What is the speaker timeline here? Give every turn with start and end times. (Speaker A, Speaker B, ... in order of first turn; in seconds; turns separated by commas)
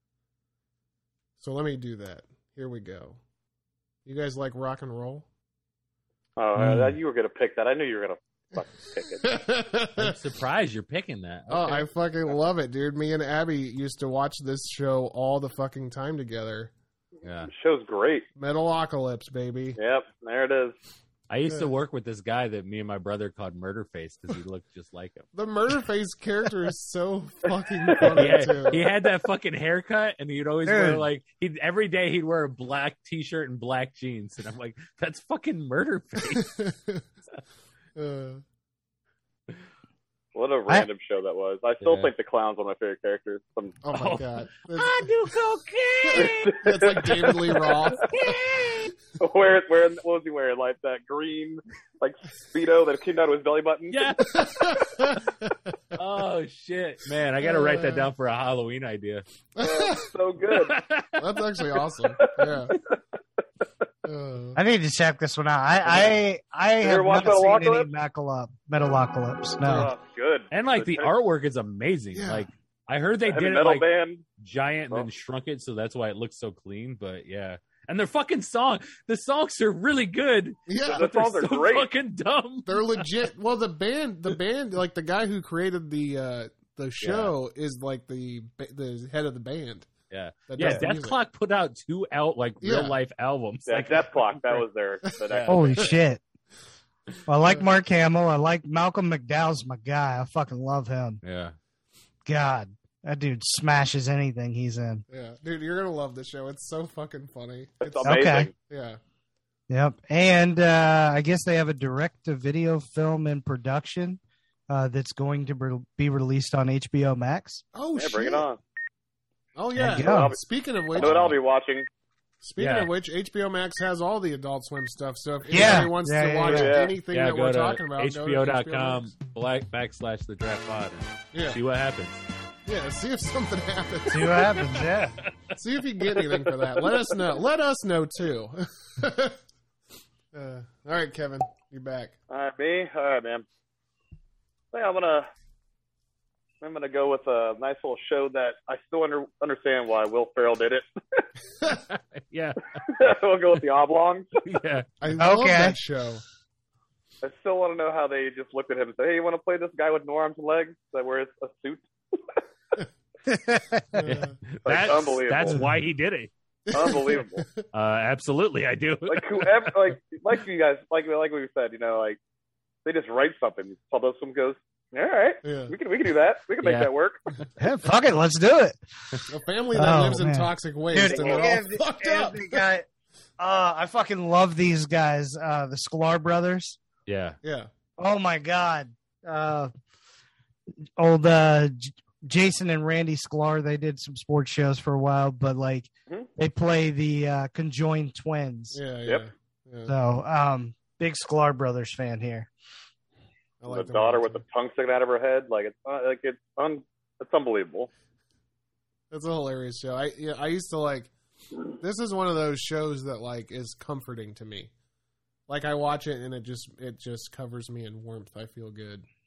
Speaker A: 1.4-3.2, Speaker A: 4.0-5.2, Speaker B: 6.4-9.2, Speaker C: 6.6-7.0, Speaker A: 9.2-10.2, Speaker D: 10.0-11.9, Speaker A: 11.5-16.7, Speaker D: 17.2-17.5, Speaker B: 17.5-18.2, Speaker A: 18.4-19.8, Speaker B: 19.8-20.8, Speaker D: 21.3-25.3, Speaker A: 25.3-28.9, Speaker B: 27.9-28.4, Speaker D: 28.1-36.6, Speaker C: 30.6-31.1, Speaker A: 36.4-37.0, Speaker A: 38.0-38.4, Speaker B: 40.3-43.7, Speaker D: 41.8-42.1, Speaker A: 43.8-45.3, Speaker D: 43.9-48.9, Speaker A: 46.1-48.4, Speaker B: 46.1-47.9, Speaker B: 49.2-54.1, Speaker D: 53.9-54.9, Speaker A: 54.3-56.0, Speaker D: 55.9-59.2, Speaker A: 57.4-58.1, Speaker A: 59.5-60.1, Speaker B: 59.6-60.8, Speaker D: 60.5-61.2, Speaker A: 61.2-62.7, Speaker B: 62.2-63.0, Speaker A: 64.0-64.6, Speaker C: 64.5-69.9, Speaker B: 66.8-67.9, Speaker B: 69.7-71.1, Speaker D: 70.5-73.8, Speaker A: 72.1-72.5, Speaker B: 73.3-74.2, Speaker D: 74.4-83.1, Speaker A: 80.7-81.0, Speaker B: 80.8-81.9, Speaker A: 82.7-89.9, Speaker D: 87.0-87.3, Speaker D: 90.1-94.6, Speaker A: 90.5-91.2, Speaker A: 92.6-93.0, Speaker B: 93.7-95.9, Speaker D: 95.3-95.8, Speaker C: 95.5-96.2, Speaker C: 97.3-101.2, Speaker A: 97.4-97.7, Speaker D: 101.2-101.5, Speaker C: 102.3-105.0, Speaker A: 105.1-109.0, Speaker B: 107.8-108.5, Speaker C: 108.0-108.5, Speaker C: 109.7-117.6, Speaker A: 117.7-118.5, Speaker B: 117.9-118.6, Speaker A: 119.5-121.4, Speaker C: 119.7-120.3, Speaker B: 119.9-120.4, Speaker B: 120.9-121.9, Speaker A: 122.4-129.1, Speaker D: 122.6-122.9, Speaker C: 125.5-126.8, Speaker B: 126.4-126.9, Speaker D: 127.1-132.2, Speaker A: 131.3-131.6, Speaker A: 132.7-134.8, Speaker C: 134.1-135.2, Speaker D: 134.2-135.3, Speaker A: 135.5-139.4, Speaker A: 140.3-142.2, Speaker B: 142.3-143.4, Speaker B: 144.7-145.3, Speaker B: 146.6-151.2, Speaker D: 151.7-152.8, Speaker B: 152.8-154.3, Speaker D: 154.4-154.8, Speaker A: 155.0-156.2, Speaker C: 155.2-155.8, Speaker B: 157.2-162.4, Speaker C: 163.3-164.1, Speaker A: 163.9-164.3, Speaker D: 164.1-166.3, Speaker B: 164.6-165.6, Speaker A: 166.7-167.7, Speaker B: 166.7-167.4, Speaker D: 167.7-169.5, Speaker B: 169.1-172.2, Speaker B: 172.8-177.2, Speaker A: 175.4-175.7, Speaker D: 176.6-176.9, Speaker C: 177.6-178.8, Speaker A: 179.3-182.6, Speaker C: 179.7-182.8, Speaker B: 181.0-181.6, Speaker C: 183.4-186.8, Speaker D: 187.1-187.4, Speaker A: 187.4-187.7, Speaker C: 188.0-189.7, Speaker C: 191.0-198.8, Speaker A: 198.7-199.9, Speaker C: 199.9-202.5, Speaker A: 203.6-204.4, Speaker B: 203.7-207.9, Speaker A: 209.1-211.1, Speaker A: 211.8-214.7, Speaker A: 215.5-219.0